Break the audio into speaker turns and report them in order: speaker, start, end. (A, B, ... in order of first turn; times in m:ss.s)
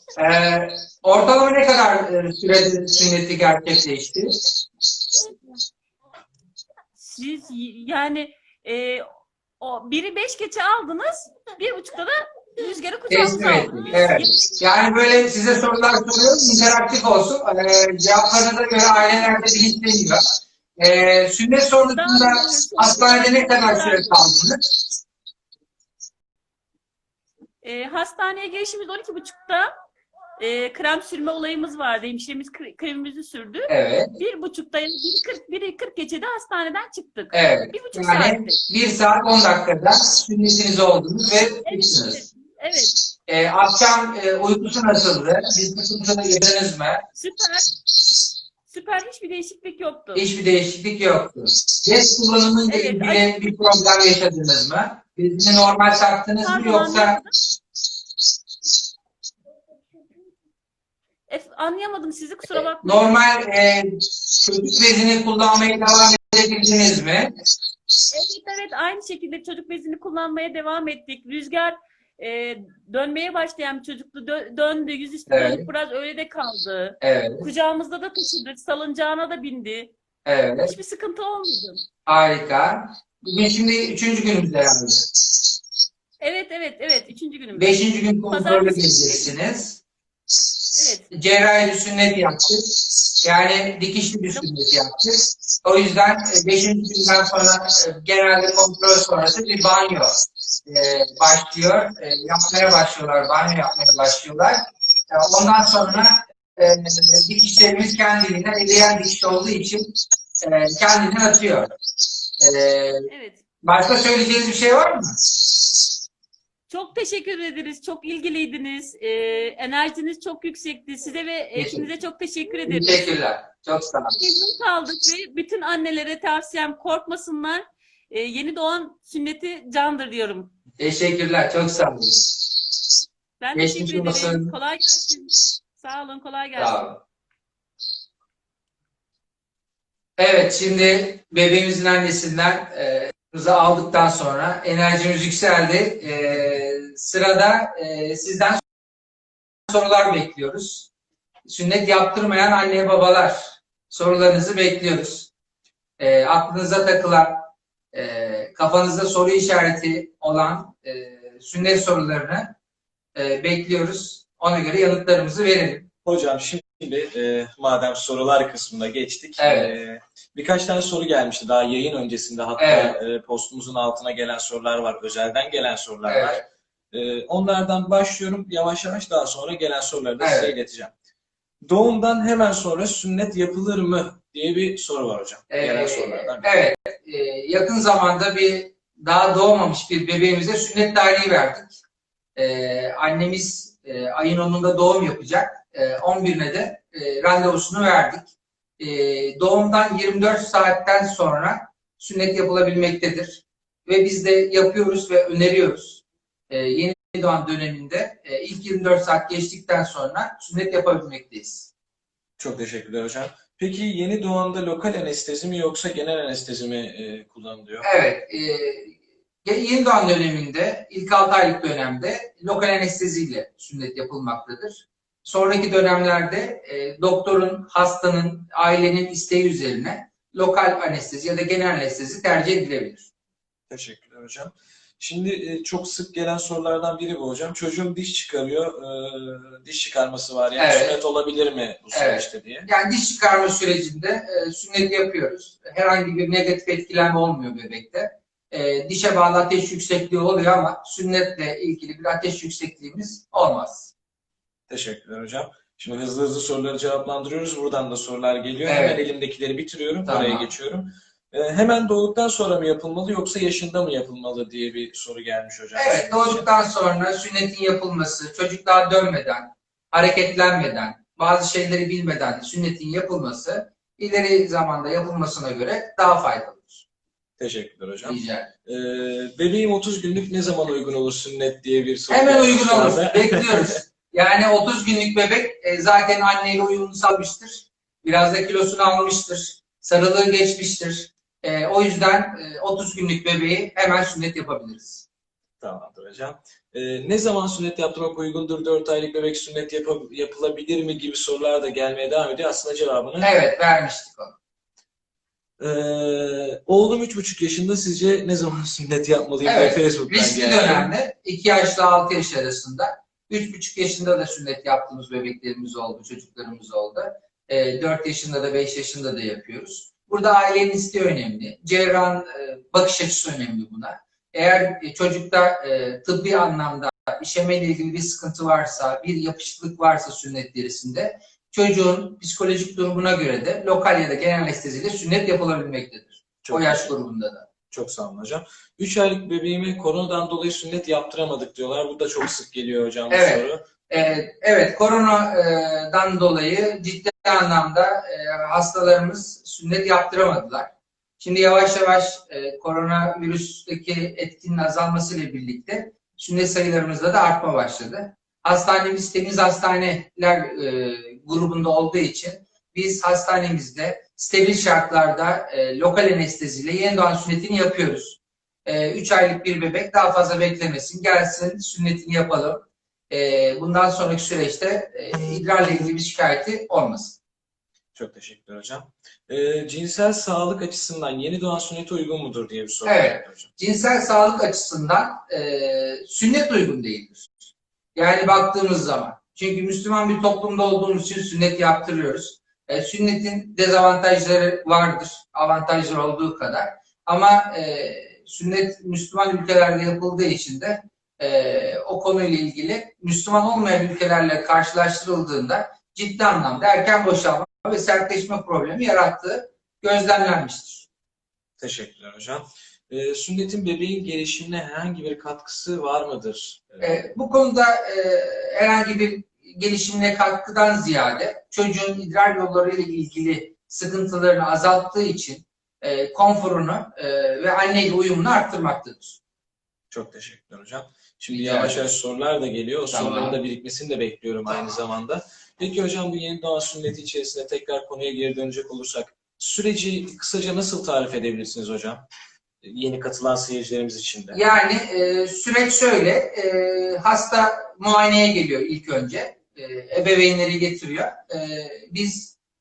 0:00.2-0:04.3 A
0:07.0-0:09.0 B
0:09.6-0:15.3 B
0:13.1-0:20.2 A
0:18.9-0:19.3 B
0:20.8-0:24.6 A
0:21.9-0:24.1 B
0:27.6-0:29.7 B
0:30.4-0:38.6 B
0:33.7-0:34.1 A
0:37.3-0:42.2 A
0:41.6-0:43.0 B
0:43.3-0:47.0 A
0:47.2-0:47.7 B
0:48.7-0:50.2 B
0:50.2-0:57.2 A
0:52.7-0:53.5 B
0:56.4-0:57.3 B
1:01.3-1:03.2 B
1:02.8-1:07.3 A
1:08.1-1:19.9 B
1:15.3-1:15.7 A
1:17.0-1:17.4 A
1:20.3-1:20.7 A
1:20.6-1:21.8 B
1:22.1-1:25.1 A
1:26.2-1:27.8 B
1:27.6-1:29.8 A
1:28.3-1:29.4 B
1:30.7-1:31.1 B
1:31.1-1:32.7 A
1:33.2-1:40.1 A
1:40.7-1:44.6 A
1:45.1-1:51.7 A
1:52.4-1:53.1 A
1:53.1-1:53.4 B
1:53.6-1:55.1 A
1:56.7-2:03.0 B
2:01.6-2:01.9 A
2:02.7-2:04.2 A
2:04.2-2:10.5 B
2:10.8-2:12.2 A
2:13.4-2:16.8 B
2:13.6-2:14.5 A
2:16.6-2:17.0 A
2:20.2-2:28.6 A
2:29.7-2:30.9 A
2:31.5-2:35.3 A
2:36.0-2:42.5 A
2:43.2-2:45.9 A
2:46.0-3:00.9 C
2:49.4-2:49.7 A
2:52.6-2:53.0 A
2:56.1-2:56.4 A
3:00.2-3:00.5 A
3:01.6-3:06.5 C
3:05.5-3:11.8 A
3:12.4-3:31.7 A
3:32.4-3:37.8 C
3:37.8-3:53.1 A
3:53.7-4:02.7 C
4:00.6-4:01.0 A
4:01.9-4:13.9 A
4:14.7-4:26.5 C
4:18.7-4:19.0 A
4:20.1-4:20.5 A
4:25.8-4:36.8 A
4:37.4-4:43.8 C
4:38.0-4:38.5 A
4:42.1-4:55.0 A
4:55.6-5:03.3 C
5:03.2-5:04.4 A
5:05.6-5:10.9 C
5:09.4-5:37.5 A
5:36.4-5:36.9 C
5:37.7-5:43.6 C
5:43.1-6:17.2 A
6:18.0-6:23.5 C
6:22.8-6:27.3 A
6:28.0-6:50.9 A
6:51.6-6:57.0 C
6:56.8-7:09.2 A
7:09.9-7:22.0 C
7:11.3-7:11.8 A
7:12.9-7:13.4 A
7:22.6-7:24.4 C
7:24.3-7:32.4 A